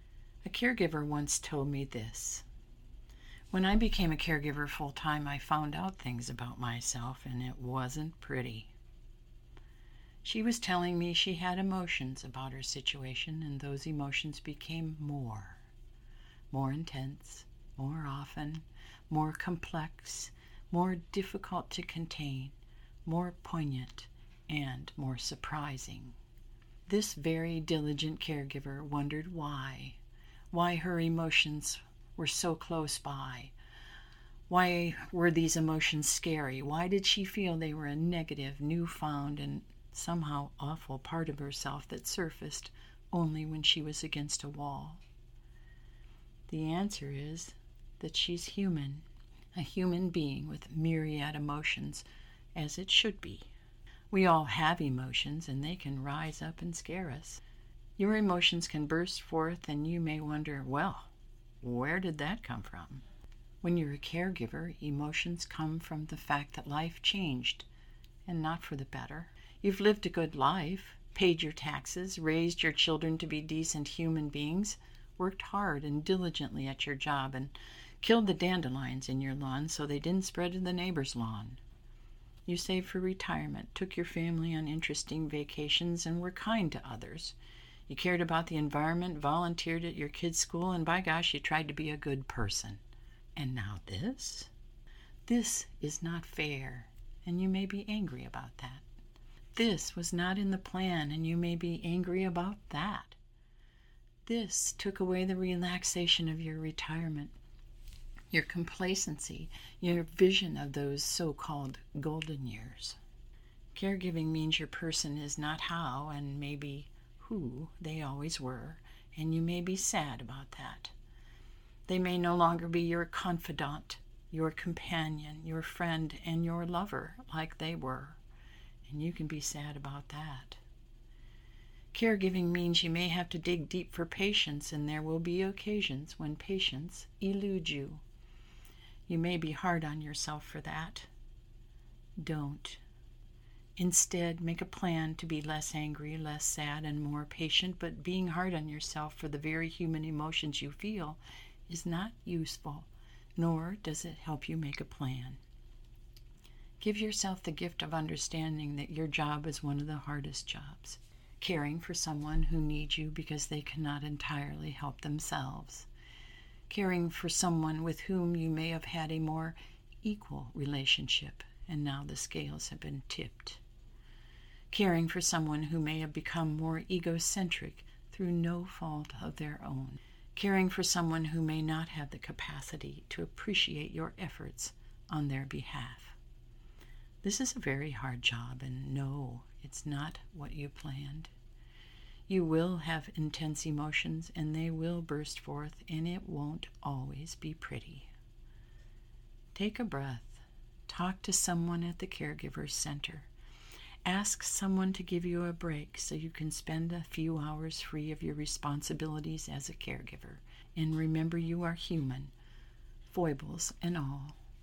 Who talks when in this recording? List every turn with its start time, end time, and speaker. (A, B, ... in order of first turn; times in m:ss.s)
0:00.4-0:02.4 A
0:03.5-0:08.7 A
0:10.2-0:15.6 A
0:16.5-0:26.2 A
0:26.9-0:30.0 A
0:30.5-0:33.5 A
0:34.5-0:45.0 A
0:46.5-0:53.5 A
0:54.1-0:57.4 A
0:58.0-1:01.1 A
1:01.6-1:03.0 A
1:03.6-1:07.7 A
1:08.2-1:21.6 A
1:22.4-1:27.4 A
1:27.9-1:32.8 A
1:33.4-1:34.5 A
1:35.2-1:38.8 A
1:39.5-1:43.2 A
1:44.2-1:47.3 A
1:48.3-1:53.0 A
1:53.7-2:00.9 A
2:01.9-2:08.2 A
2:08.8-2:10.6 A
2:11.9-2:18.0 A
2:19.1-2:21.1 A
2:22.2-2:22.8 A
2:23.8-2:35.4 A
2:36.8-2:45.9 A
2:46.7-2:53.6 A
2:54.7-3:06.2 A
3:07.2-3:11.3 A
3:12.3-3:18.1 A
3:19.5-3:23.3 A
3:24.0-3:32.3 A
3:33.1-3:34.4 A